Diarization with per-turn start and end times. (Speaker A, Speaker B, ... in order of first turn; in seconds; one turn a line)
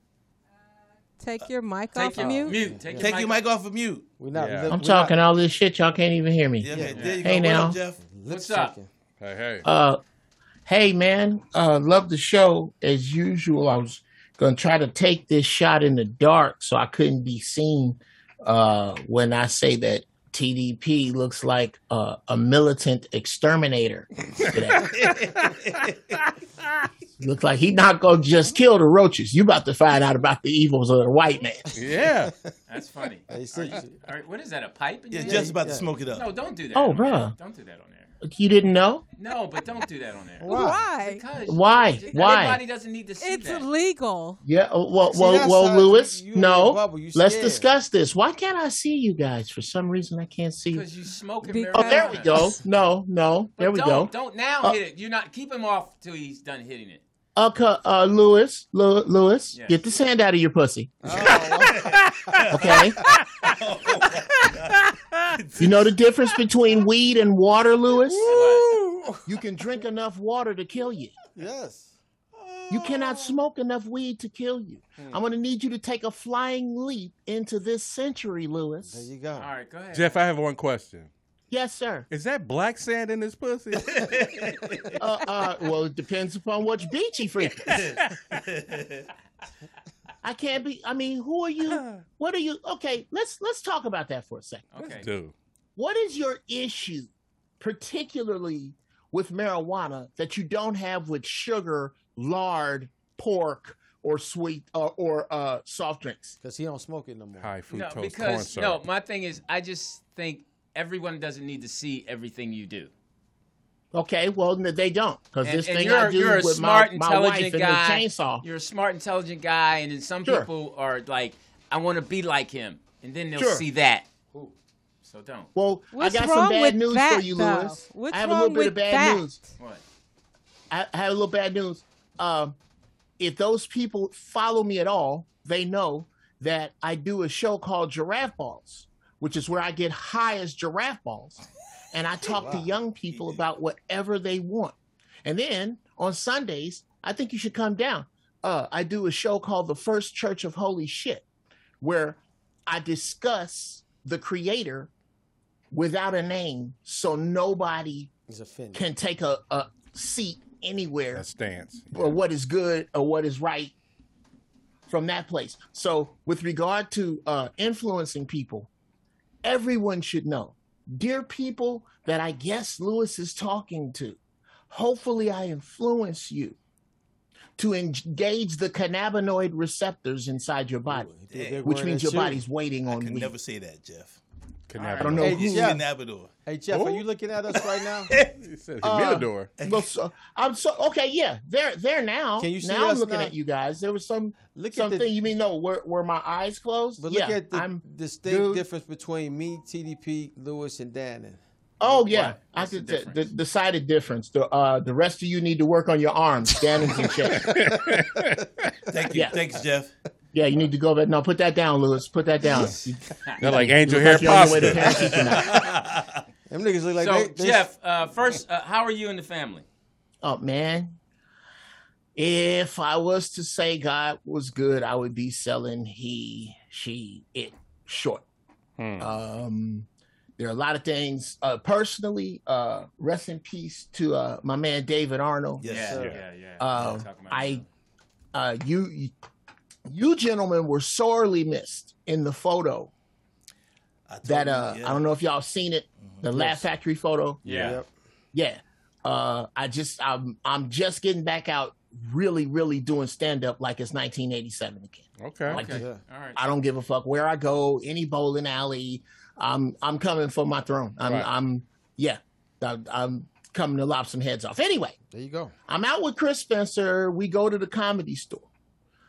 Speaker A: 1.2-2.6
Speaker B: 1.9-3.4
Speaker C: 2.5-3.1
Speaker D: 2.9-4.1
Speaker C: 4.2-5.2
Speaker E: 4.3-4.8
Speaker F: 4.7-7.8
Speaker D: 6.6-8.0
Speaker C: 6.7-7.1
Speaker B: 6.9-7.2
Speaker C: 8.0-8.9
Speaker B: 8.3-8.7
Speaker E: 9.2-9.7
Speaker F: 9.6-10.0
Speaker F: 10.7-24.9
Speaker E: 24.4-25.1
Speaker D: 24.7-26.2
Speaker F: 27.2-31.7
Speaker E: 31.8-32.3
Speaker C: 31.9-32.3
Speaker B: 32.7-35.6
Speaker C: 33.3-33.9
Speaker D: 35.1-36.3
Speaker C: 35.2-35.9
Speaker B: 36.1-38.1
Speaker F: 36.7-37.3
Speaker F: 38.2-39.0
Speaker B: 39.2-43.6
Speaker C: 40.4-40.8
Speaker A: 40.5-41.3
Speaker F: 41.4-42.6
Speaker A: 42.1-42.4
Speaker A: 43.2-44.4
Speaker F: 44.4-50.9
Speaker C: 45.1-47.7
Speaker B: 50.7-52.4
Speaker A: 51.4-52.6
Speaker F: 51.8-54.8
Speaker B: 53.6-57.0
Speaker F: 57.4-61.0
Speaker B: 59.5-59.8
Speaker C: 61.0-63.0
Speaker D: 61.1-64.8
Speaker F: 62.5-63.0
Speaker E: 63.1-63.5
Speaker E: 64.9-65.3
Speaker D: 65.3-65.8
Speaker F: 65.6-68.3
Speaker E: 68.1-69.2
Speaker B: 68.3-68.7
Speaker F: 69.3-71.1
Speaker C: 71.3-72.0
Speaker D: 72.3-73.2
Speaker F: 72.7-79.1
Speaker C: 78.8-79.5
Speaker B: 79.4-80.2
Speaker E: 79.9-81.1
Speaker F: 81.5-82.1
Speaker E: 82.1-84.1
Speaker D: 83.9-85.0
Speaker F: 85.0-87.7
Speaker E: 87.7-88.1
Speaker D: 87.7-89.1
Speaker F: 90.2-94.7
Speaker E: 91.7-92.1
Speaker B: 94.7-95.1
Speaker E: 94.8-95.3
Speaker F: 95.8-106.4
Speaker C: 106.4-107.5
Speaker E: 107.4-108.8
Speaker B: 107.7-112.9
Speaker F: 113.9-118.4
Speaker B: 115.4-124.5
Speaker F: 123.3-123.7
Speaker B: 125.0-125.5
Speaker F: 125.5-129.4
Speaker A: 125.9-129.4
Speaker B: 129.6-129.8
Speaker F: 130.7-132.6
Speaker F: 133.2-151.2
Speaker C: 142.3-142.7
Speaker D: 143.1-143.4
Speaker F: 151.8-154.9
Speaker F: 155.7-158.1
Speaker C: 158.3-158.9
Speaker F: 158.7-161.3
Speaker E: 161.1-162.2
Speaker F: 161.9-163.7
Speaker F: 164.9-168.7
Speaker F: 169.4-174.2
Speaker F: 174.7-176.6
Speaker F: 177.6-183.3
Speaker C: 180.9-182.4
Speaker D: 181.3-181.7
Speaker D: 182.9-184.2
Speaker E: 184.7-185.6
Speaker F: 184.9-185.8
Speaker C: 185.1-185.8
Speaker D: 185.2-186.3
Speaker C: 186.4-188.2
Speaker E: 186.7-187.1
Speaker E: 188.3-189.5
Speaker F: 188.8-198.7
Speaker D: 189.6-189.9
Speaker C: 192.4-193.3
Speaker C: 194.5-195.3
Speaker C: 197.0-201.4
Speaker F: 201.8-207.5
Speaker B: 201.8-203.2
Speaker E: 207.4-208.4
Speaker C: 207.4-208.4
Speaker D: 208.9-209.9
Speaker F: 210.3-215.6
Speaker E: 213.4-215.3
Speaker D: 214.8-216.2
Speaker C: 216.5-217.7
Speaker B: 217.0-219.7
Speaker F: 220.2-221.0
Speaker F: 222.2-228.2
Speaker E: 228.8-229.1
Speaker F: 229.0-229.9
Speaker F: 230.4-235.7
Speaker D: 235.6-236.0
Speaker B: 235.6-237.7
Speaker C: 235.7-236.1
Speaker F: 236.6-237.7
Speaker F: 238.3-239.1
Speaker F: 239.9-242.9
Speaker D: 244.1-245.0
Speaker F: 244.2-247.4
Speaker C: 246.2-246.7
Speaker B: 247.4-247.8
Speaker C: 247.4-247.9
Speaker F: 248.3-255.8
Speaker E: 255.2-255.7
Speaker B: 255.5-256.4
Speaker C: 255.6-256.0
Speaker F: 256.4-265.0
Speaker E: 261.0-261.3
Speaker C: 265.1-265.5
Speaker F: 265.7-268.5